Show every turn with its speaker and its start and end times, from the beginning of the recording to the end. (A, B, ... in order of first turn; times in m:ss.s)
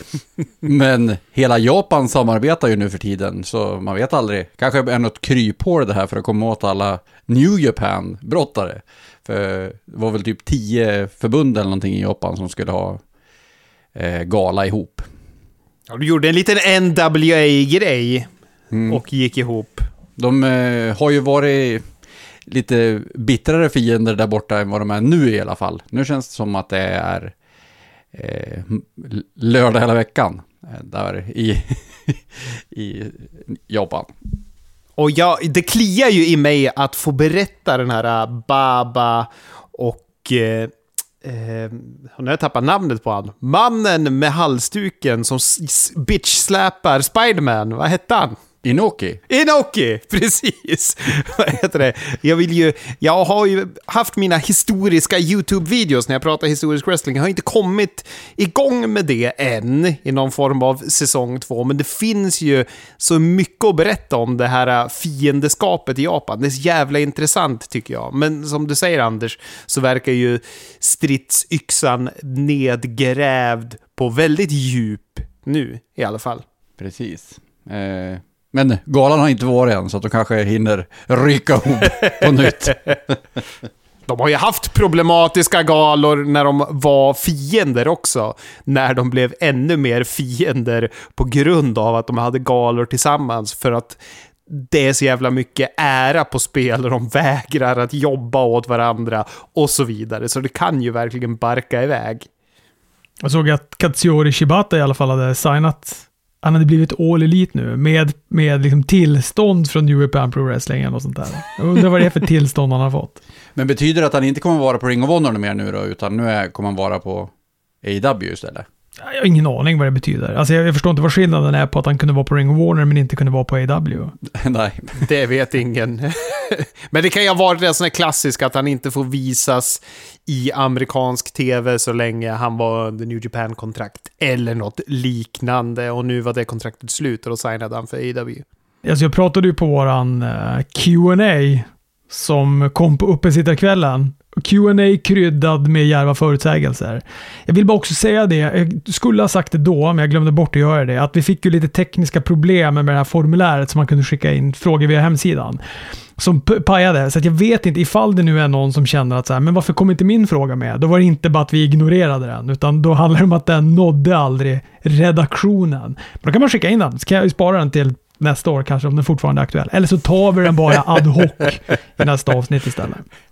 0:00.6-0:13.0 A
0:13.9-0:15.1 A
0:15.9-0:18.3 B
0:18.7-0:19.0 A
0:18.9-0:19.9 B
0:20.2-0:21.8 A
0:22.5-0:27.3 A
0:28.1-0:34.1 A
0:35.0-0:48.4 B
0:48.6-0:49.2 A
0:49.3-1:16.4 B
1:16.8-1:23.2 A
1:24.1-1:42.3 B
1:43.2-1:53.2 C
1:53.6-1:57.3 A
1:57.8-1:58.6 A
1:59.0-2:04.2 C
2:04.3-2:05.0 A
2:05.0-2:18.4 B
2:18.8-2:35.6 C
2:36.2-2:53.0 C